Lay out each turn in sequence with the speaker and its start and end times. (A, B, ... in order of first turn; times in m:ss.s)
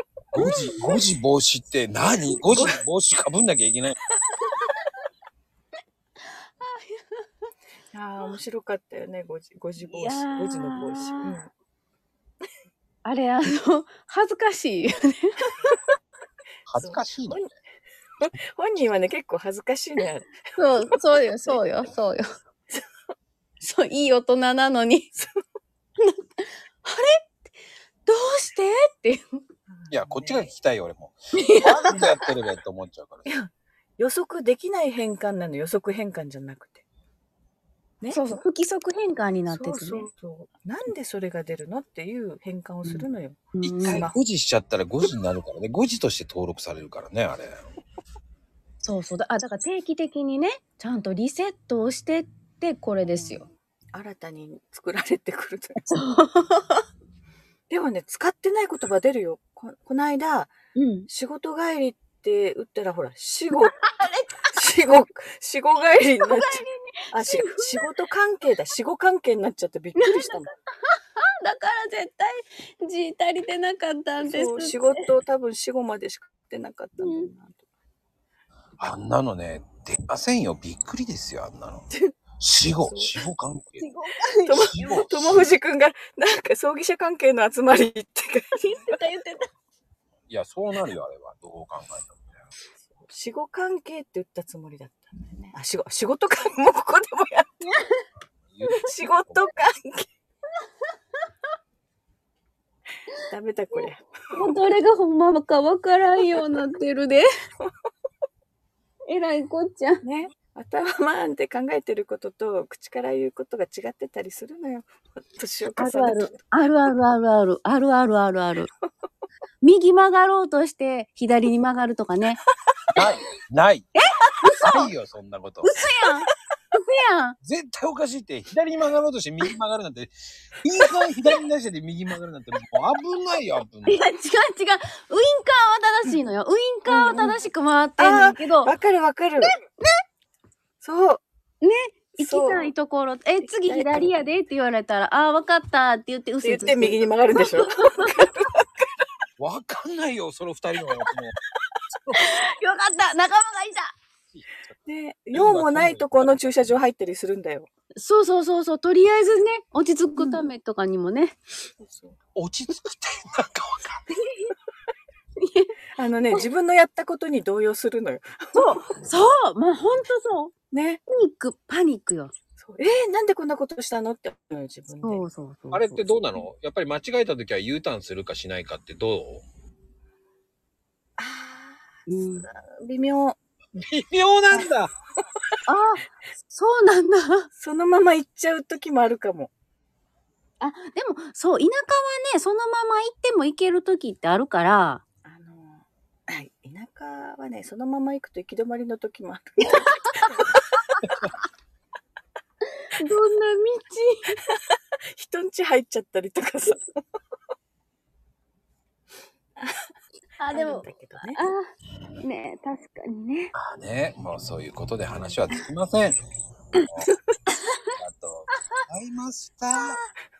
0:00.3-0:04.0 A
0:00.4-0:01.0 B
0:06.6-0:07.2 B
0:07.9-0:11.5 C
0:09.8-0:11.4 B
0:13.0-0:15.3 B
0:16.7-0:17.5 A
0:16.7-0:17.5 C
0:18.3-0:20.3 C
0:20.6-0:22.2 B
0:23.6-0:25.1 B
0:26.0-0:27.2 B
0:28.0-0:29.4 B
0:29.7-0:30.5 C
0:29.9-0:33.2 A
0:31.4-0:32.0 B
0:31.9-0:32.2 C
0:33.2-0:36.8 C
0:38.0-0:38.4 C
0:38.1-0:40.1 B
0:39.5-0:44.2 C
0:42.8-0:44.1 B
0:43.6-0:47.6 A
0:48.8-0:53.4 B
0:53.9-0:55.8 C
0:55.9-0:56.8 B
0:57.7-1:00.5 C
1:00.7-1:01.1 B
1:01.1-1:03.8 C
1:03.8-1:04.5 B
1:04.5-1:10.5 C
1:06.2-1:07.9 B
1:10.0-1:10.4 B
1:11.2-1:15.0 B
1:14.2-1:17.6 C
1:17.0-1:17.3 B
1:18.8-1:21.9 A
1:22.4-1:23.9 A
1:22.8-1:23.1 C
1:23.8-1:25.0 B
1:24.5-1:28.9 C
1:24.7-1:25.4 A
1:28.6-1:29.5 B
1:30.3-1:32.2 A
1:33.0-1:37.6 C
1:38.8-1:40.1 C
1:43.3-1:44.4 C
1:43.7-1:47.3 B
1:49.1-1:50.0 B
1:50.0-1:56.4 C
1:55.8-1:58.7 B
1:59.6-2:02.4 B
2:02.9-2:03.9 A
2:03.9-2:04.9 B
2:04.6-2:05.7 A
2:05.6-2:07.4 B
2:07.4-2:14.0 A
2:13.8-2:18.7 B
2:16.8-2:17.4 C
2:18.0-2:19.5 C
2:19.4-2:19.9 B
2:20.8-2:21.2 C
2:21.6-2:27.0 B
2:22.2-2:22.7 C
2:23.4-2:24.1 C
2:26.4-2:28.6 C
2:27.8-2:28.2 B
2:29.4-2:31.4 A
2:31.9-2:32.4 A
2:32.2-2:33.9 B
2:34.3-2:34.8 A
2:34.8-2:37.7 C
2:35.3-2:36.7 A
2:38.0-2:41.4 B
2:40.2-2:40.4 C
2:41.8-2:42.2 C
2:42.3-2:44.0 A
2:44.2-2:44.5 B
2:45.4-2:45.7 B
2:45.9-2:48.8 C
2:48.6-2:50.5 B
2:50.7-2:51.0 C
2:51.1-2:52.3 B
2:52.6-2:55.2 C
2:55.0-2:56.2 B
2:55.7-2:59.4 A
3:01.2-3:03.4 C
3:02.1-3:02.5 B
3:03.7-3:04.9 A
3:05.7-3:07.5 B
3:07.6-3:09.5 C
3:10.6-3:15.0 B
3:15.2-3:20.6 C
3:19.7-3:20.2 B
3:23.0-3:24.4 B
3:24.5-3:26.8 C
3:30.4-3:31.6 B
3:30.5-3:31.4 C
3:32.2-3:33.5 B
3:33.6-3:36.2 A
3:37.5-3:37.9 B
3:37.9-3:40.0 A